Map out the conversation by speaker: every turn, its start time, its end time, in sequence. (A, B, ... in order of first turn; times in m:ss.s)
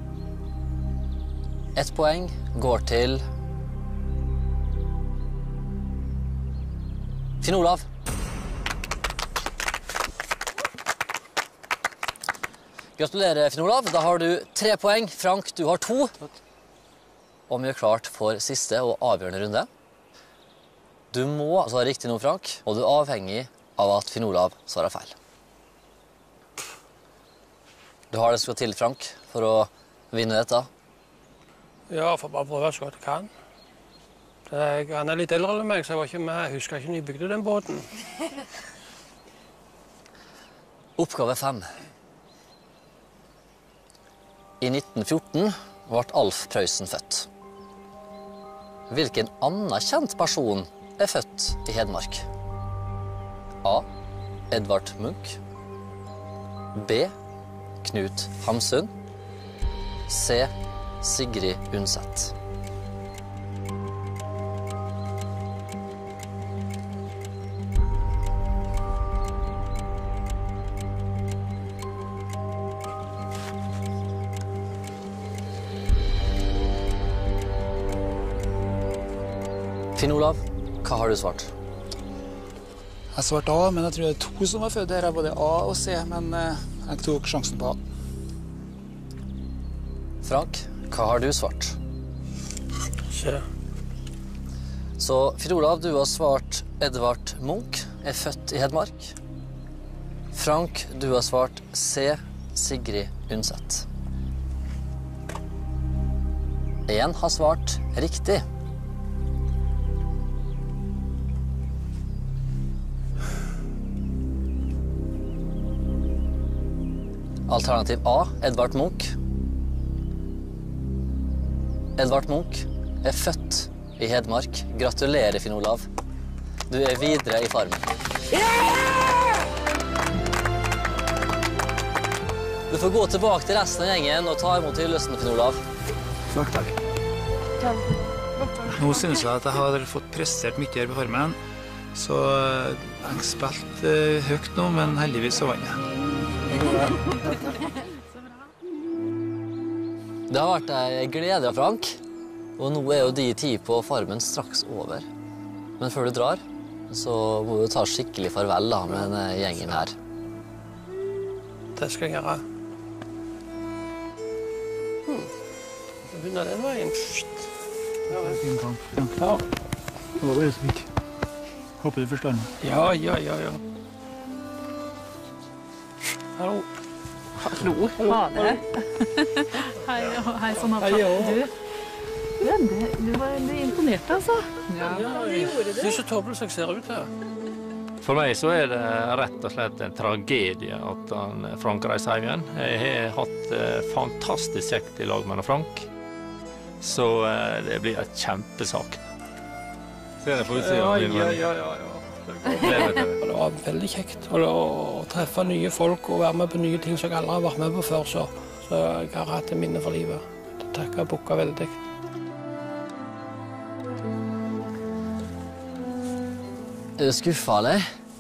0:01.8-0:03.2 A
0:07.4-0:07.8 A
0:13.0-0:16.2 A
0:17.5-0:19.7 A
0:21.1-0:25.2 A
0:28.1-0:30.7 A
0:31.9-0:33.3 B
0:34.5-0:37.9 B
0:41.0-0:41.7 A
0:44.6-0:47.3 A
0:48.9-0:52.3 A
0:54.5-0:55.4 A
0:56.8-0:57.1 A
0:57.8-0:58.9 A
1:00.1-1:02.3 A
1:20.0-1:21.5 A
1:23.1-1:27.8 C
1:30.2-1:31.8 A
1:33.1-1:33.4 B
1:35.0-1:39.1 A
1:40.3-1:43.9 A
1:46.9-1:48.4 A
1:57.5-1:59.1 A
2:02.0-2:05.9 A
2:06.7-2:07.9 A
2:12.7-2:15.6 A
2:16.3-2:16.7 C
2:18.7-2:21.4 C
2:21.9-2:25.8 C
2:26.5-2:27.4 C
2:30.3-2:32.0 A
2:32.6-2:35.1 A
2:35.8-2:40.0 A
2:41.8-2:42.4 B
2:45.1-2:45.3 B
2:46.1-2:47.5 B
2:48.1-2:48.4 B
2:48.2-2:49.2 C
2:49.2-2:49.4 B
2:50.2-2:50.9 C
2:51.8-2:52.5 C
2:52.6-2:53.6 B
2:56.4-2:56.7 B
2:57.4-2:58.6 D
2:58.0-2:58.6 B
2:59.8-3:01.5 D
3:00.8-3:01.4 B
3:02.4-3:05.1 D
3:04.8-3:07.1 B
3:08.0-3:15.9 E
3:16.8-3:19.0 E
3:20.2-3:21.5 E
3:20.4-3:31.8 B
3:22.6-3:23.2 E
3:37.0-3:37.9 A